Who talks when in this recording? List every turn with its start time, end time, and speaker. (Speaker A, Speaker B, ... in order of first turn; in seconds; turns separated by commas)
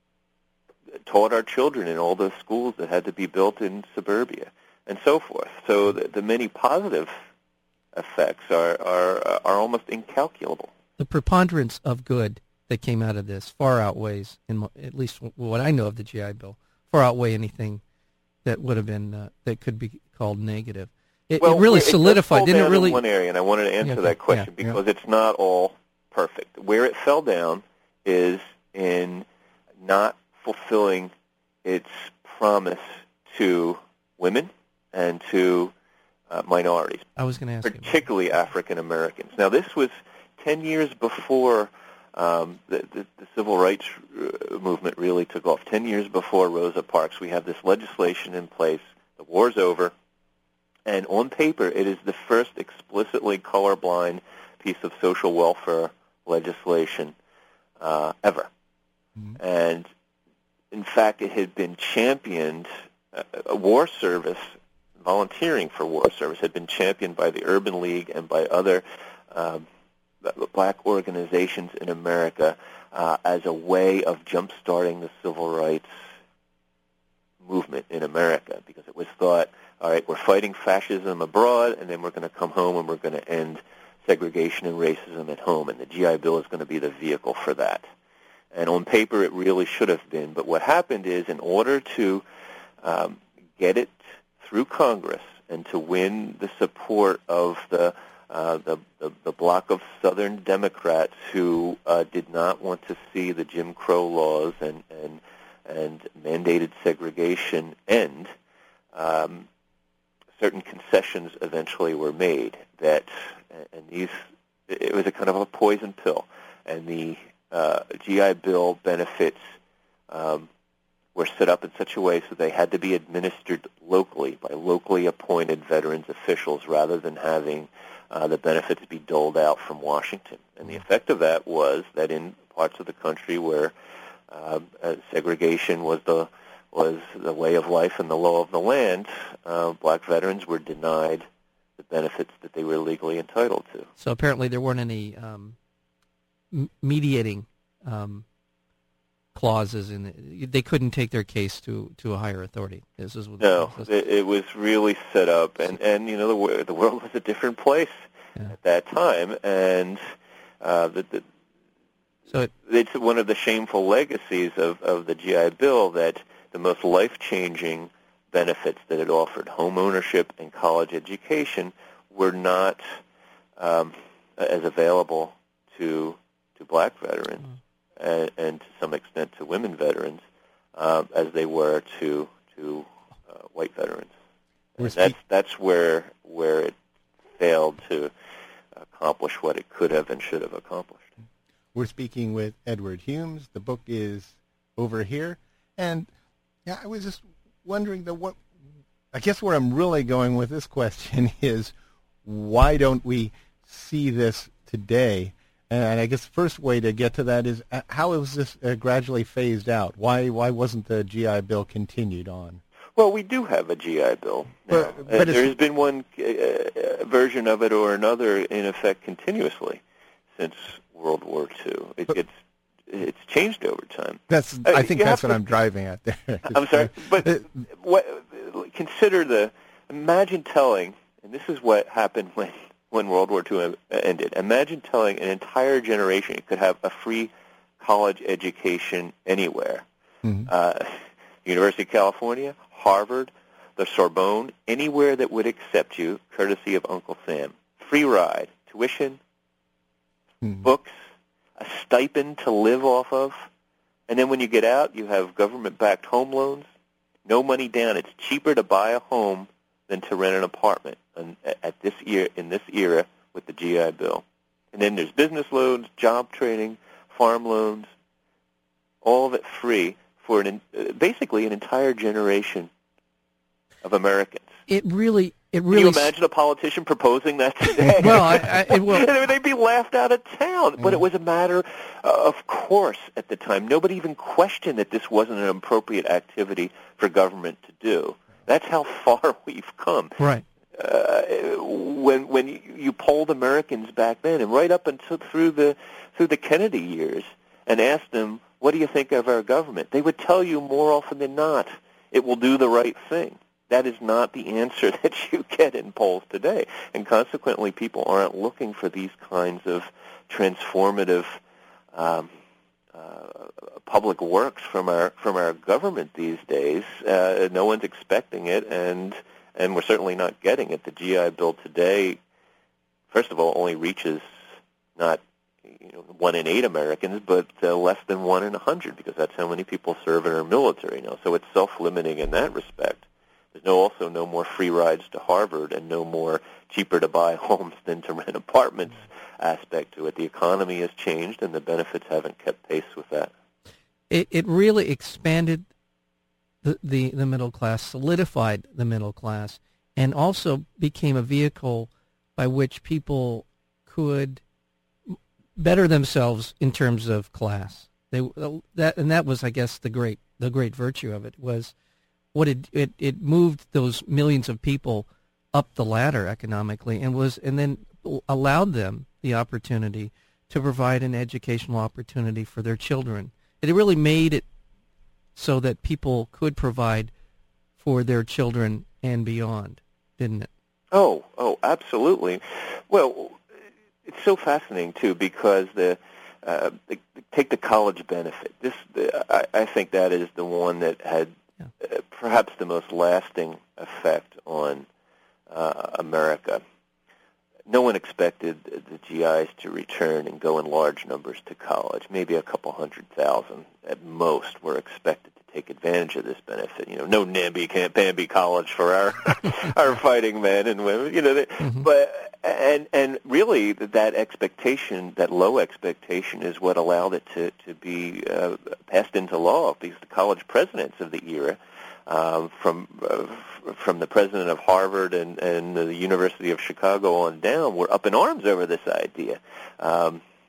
Speaker A: 1.1-7.1, Speaker A: 7.9-10.7, Speaker B: 11.0-17.8, Speaker B: 18.4-23.0, Speaker A: 21.4-29.3, Speaker B: 23.8-24.5, Speaker A: 29.8-31.1, Speaker A: 31.6-35.7, Speaker A: 36.3-37.1, Speaker B: 37.2-37.9, Speaker A: 37.6-49.9, Speaker A: 50.9-57.1, Speaker A: 57.8-58.5, Speaker A: 59.4-59.9, Speaker A: 60.7-69.7, Speaker A: 70.2-75.9, Speaker A: 77.4-87.9, Speaker A: 88.5-92.2, Speaker A: 92.8-108.3, Speaker A: 108.9-109.5, Speaker A: 110.4-119.5, Speaker A: 120.1-120.5, Speaker A: 121.2-133.7, Speaker A: 134.3-141.3, Speaker A: 141.8-143.9, Speaker B: 144.0-145.6, Speaker B: 146.5-148.2, Speaker B: 149.3-153.9, Speaker A: 153.4-160.0, Speaker A: 160.6-161.3, Speaker A: 162.6-172.8, Speaker A: 173.6-180.2, Speaker A: 180.8-184.1, Speaker A: 184.8-186.8, Speaker C: 184.8-185.2, Speaker A: 187.4-188.1, Speaker A: 188.9-191.1, Speaker C: 191.7-196.1, Speaker C: 196.7-198.4, Speaker C: 199.1-201.7, Speaker C: 202.2-212.6, Speaker A: 213.0-219.8, Speaker C: 214.7-215.5, Speaker A: 220.4-222.3, Speaker A: 222.9-225.4, Speaker C: 224.3-227.4, Speaker A: 226.4-239.9, Speaker A: 240.5-249.2, Speaker A: 250.6-251.0, Speaker A: 251.6-253.5, Speaker A: 254.1-256.7, Speaker A: 257.3-267.9, Speaker A: 269.0-272.7, Speaker A: 273.8-274.6, Speaker B: 274.7-276.1, Speaker A: 275.7-290.2, Speaker B: 278.0-279.1, Speaker B: 290.2-290.4, Speaker A: 290.7-311.4, Speaker A: 311.9-312.3, Speaker A: 312.9-322.2, Speaker A: 323.1-324.4, Speaker A: 325.0-343.3, Speaker B: 344.1-345.7, Speaker B: 346.6-354.4, Speaker B: 355.1-361.7, Speaker B: 362.3-374.4, Speaker B: 375.4-377.1, Speaker B: 377.8-380.5, Speaker A: 380.9-383.4, Speaker A: 384.1-394.9, Speaker A: 395.5-396.6, Speaker A: 397.7-430.2